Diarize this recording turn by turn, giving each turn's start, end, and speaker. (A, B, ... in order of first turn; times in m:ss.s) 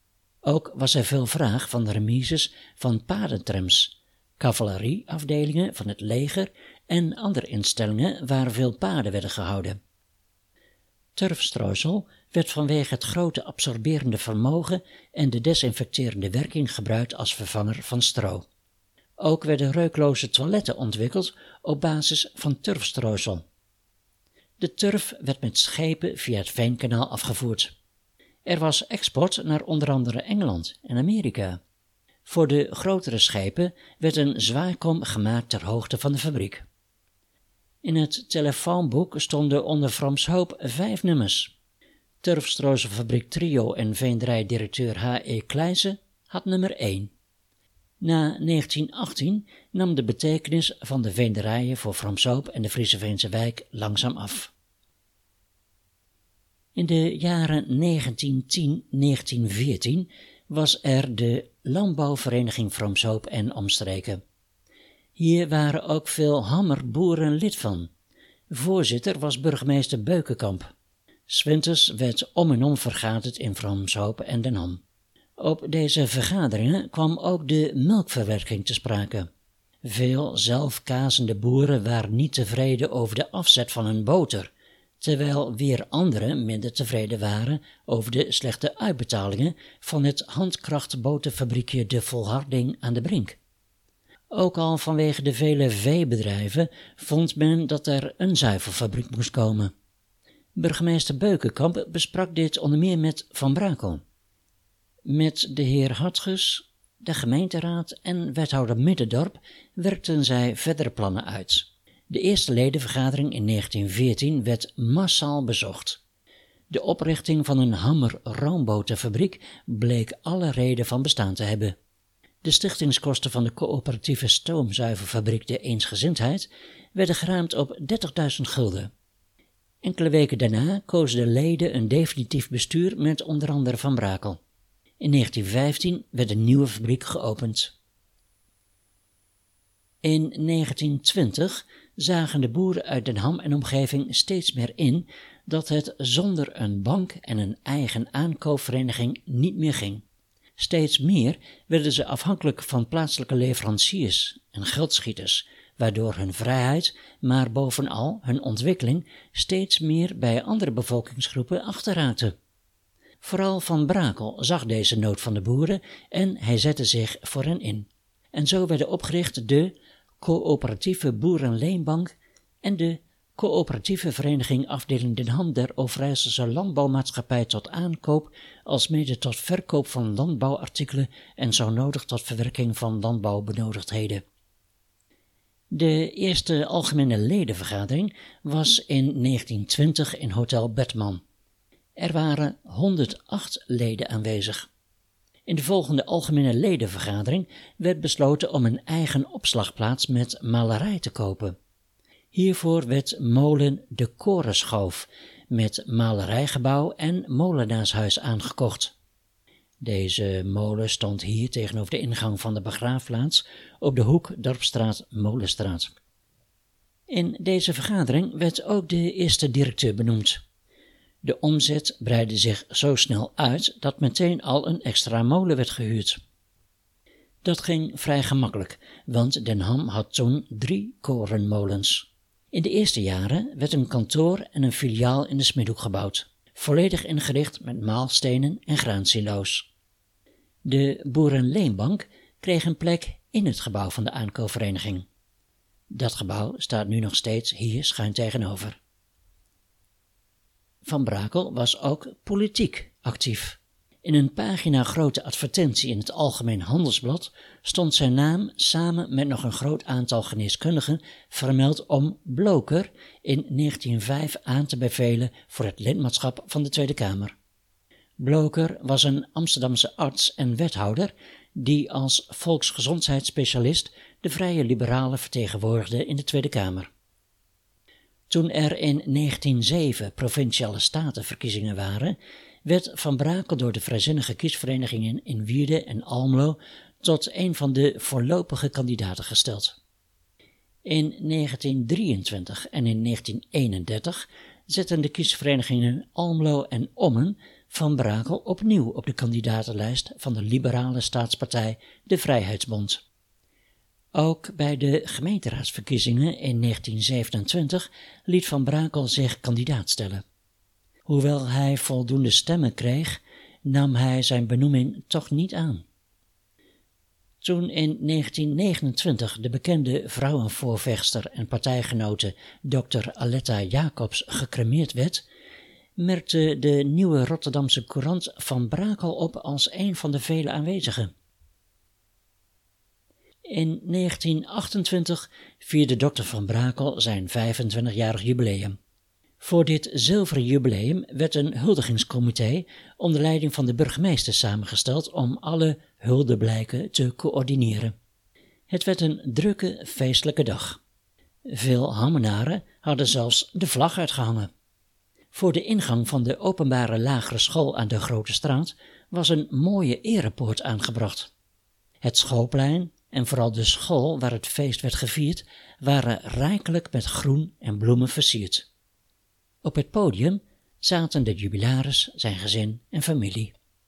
0:00.4-0:09.8 A
0:11.2-0:18.5 A
0:19.2-0:23.4 A
0:24.6-0:27.7 A
0:28.4-0:31.6 A
0:32.3-0:36.6 A
0:37.8-0:41.5 A
0:42.2-0:47.1 A
0:48.0-0:54.5 A
0:56.8-1:04.2 A
1:05.2-1:07.9 A
1:08.5-1:10.7 A
1:11.3-1:14.8 A
1:15.4-1:19.3 A
1:19.8-1:33.4 A
1:34.3-1:39.7 A
1:40.6-1:44.0 A
1:45.0-1:56.0 A
1:56.7-2:01.8 A
2:02.4-2:08.9 A
2:09.8-2:14.4 A
2:15.0-2:17.7 A
2:20.0-2:30.0 A
2:30.6-2:42.3 A
2:43.2-3:04.2 A
3:05.7-3:11.2 A
3:12.0-3:14.7 A
3:15.5-3:21.6 A
3:22.3-3:28.9 A
3:29.8-3:35.9 A
3:37.1-3:40.4 A
3:41.2-3:46.2 A
3:47.4-3:59.7 A
4:00.6-4:05.1 A
4:05.9-4:08.8 A
4:10.8-4:27.4 A
4:28.2-4:36.9 A
4:38.3-4:49.8 A
4:50.8-5:03.0 A
5:04.1-5:10.2 A
5:11.1-5:15.8 A
5:17.4-5:25.2 A
5:26.0-5:31.1 A
5:33.5-5:38.8 A
5:39.4-5:47.9 A
5:48.7-5:50.8 A
5:51.5-5:54.5 A
5:55.3-6:01.3 A
6:02.0-6:08.7 A
6:09.6-6:13.5 A